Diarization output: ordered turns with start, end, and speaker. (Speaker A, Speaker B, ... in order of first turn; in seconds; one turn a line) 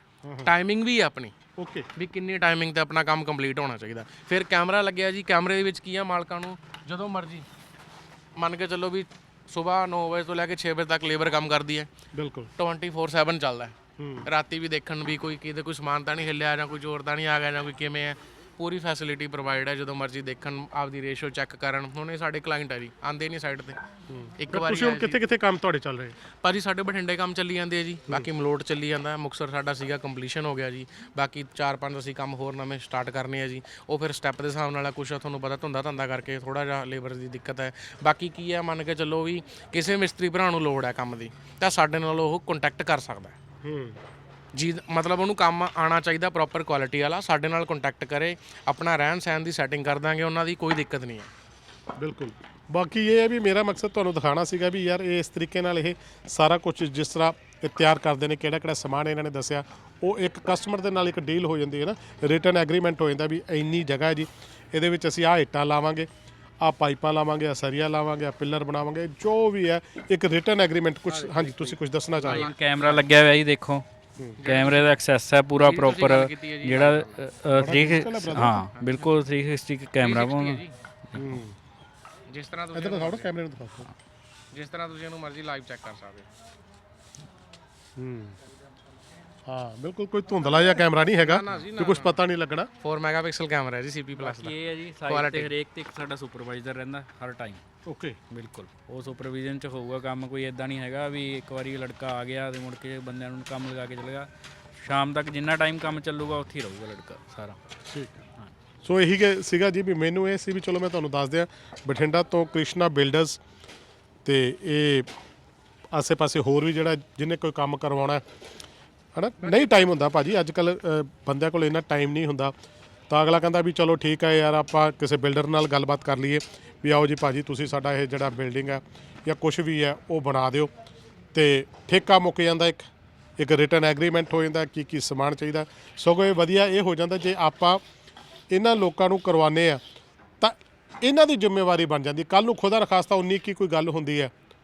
Speaker A: 0.2-0.5
Speaker B: 0.4-1.4
Speaker A: 1.6-1.9
Speaker B: 1.9-7.5
Speaker B: 8.4-11.9
Speaker A: 12.1-12.5
Speaker B: 12.6-23.8
Speaker A: 14.0-14.3
Speaker A: 24.1-26.2
Speaker B: 24.4-25.2
Speaker B: 26.4-43.4
Speaker A: 43.6-44.0
Speaker B: 44.5-51.3
Speaker A: 52.0-66.1
Speaker A: 66.6-72.5
Speaker B: 71.1-73.1
Speaker C: 72.2-73.8
Speaker B: 74.4-74.9
Speaker C: 74.4-81.2
Speaker B: 75.6-77.2
Speaker A: 77.6-78.6
Speaker B: 78.6-79.2
Speaker B: 80.0-80.7
Speaker A: 81.2-81.6
Speaker B: 82.3-83.3
Speaker A: 82.7-83.9
Speaker B: 84.5-86.3
Speaker A: 88.0-88.4
Speaker A: 89.5-92.7
Speaker B: 91.2-92.2
Speaker B: 92.8-94.5
Speaker C: 94.2-97.6
Speaker B: 95.1-95.5
Speaker A: 97.9-98.2
Speaker C: 98.3-107.6
Speaker A: 107.9-108.1
Speaker A: 108.8-113.4
Speaker A: 114.2-115.1
Speaker A: 115.9-118.2
Speaker A: 119.1-122.5
Speaker B: 119.4-119.8
Speaker A: 123.1-130.7
Speaker A: 131.3-132.8
Speaker A: 133.4-137.8
Speaker A: 138.5-139.8
Speaker A: 140.4-144.3